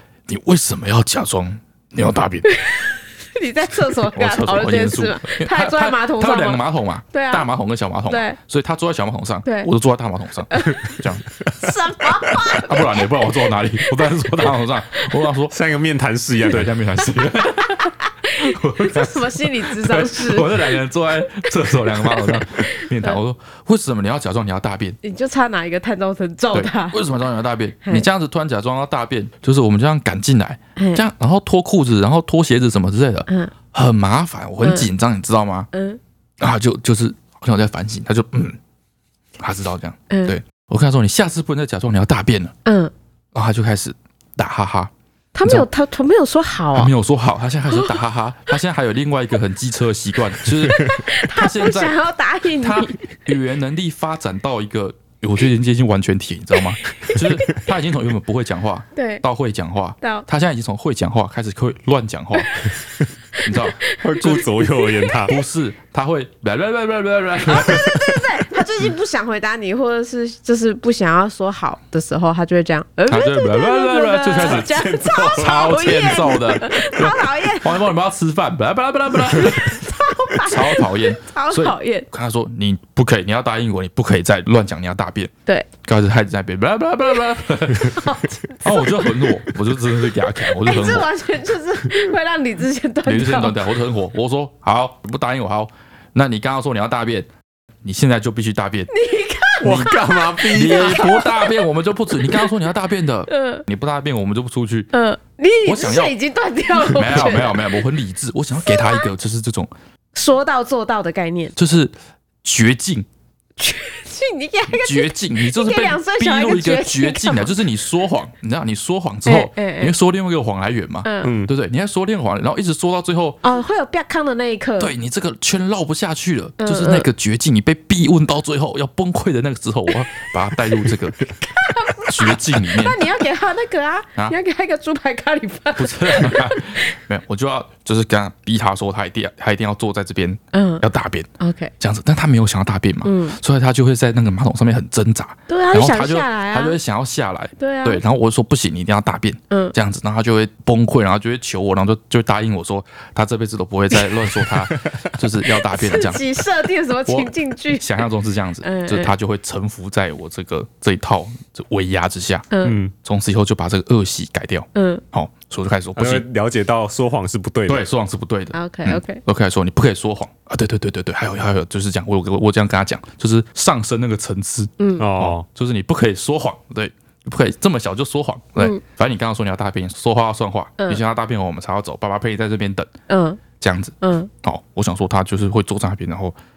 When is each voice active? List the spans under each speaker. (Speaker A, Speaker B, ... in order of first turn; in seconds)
Speaker A: 0.3-2.5, 4.1-11.2, 12.6-15.6, 16.5-25.0, 26.5-35.7, 36.4-38.6, 39.4-42.5, 43.3-44.9, 46.7-52.0, 52.6-62.6, 63.4-64.4, 65.3-68.2, 73.1-74.7, 75.4-79.8, 80.4-85.3, 85.8-91.1, 93.0-97.3, 97.8-98.9, 99.6-104.9, 105.7-106.2, 106.8-109.7, 111.6-111.9, 112.4-113.1, 114.7-123.4, 124.8-131.2, 132.0-133.0, 135.8-156.2, 157.1-166.2, 167.7-182.9, 183.6-186.4
Speaker B: 2.5-7.5, 8.1-8.4, 9.4-9.7, 10.5-10.9, 11.6-13.3, 17.7-20.7, 22.1-23.2, 25.0-27.0, 30.8-31.0, 33.3-33.5, 34.6-34.9, 35.7-36.0, 40.1-40.4, 42.6-42.9, 45.4-46.9, 50.7-53.0, 59.0-59.2, 60.0-60.3, 62.4-62.8, 63.4-65.2, 67.5-77.9, 79.4-82.1, 87.9-89.2, 90.5-93.6, 98.9-102.5, 103.3-103.7, 104.9-107.7, 108.6-109.1, 110.2-111.5, 113.6-117.6, 119.3-119.9, 121.0-121.3, 123.4-124.9, 126.6-127.1, 131.4-137.0, 140.5-140.8, 141.4-141.7, 143.0-143.4, 145.5-146.8, 147.6-148.0, 149.5-149.8, 155.5-158.0, 158.6-159.1, 162.5-162.8, 164.8-165.0, 168.5-169.2, 174.8-175.1, 183.1-183.4, 184.0-184.3
Speaker C: 15.5-16.7, 63.9-65.4, 74.4-75.8, 99.6-101.1, 121.2-121.5, 162.6-162.9, 166.0-167.9, 175.0-175.4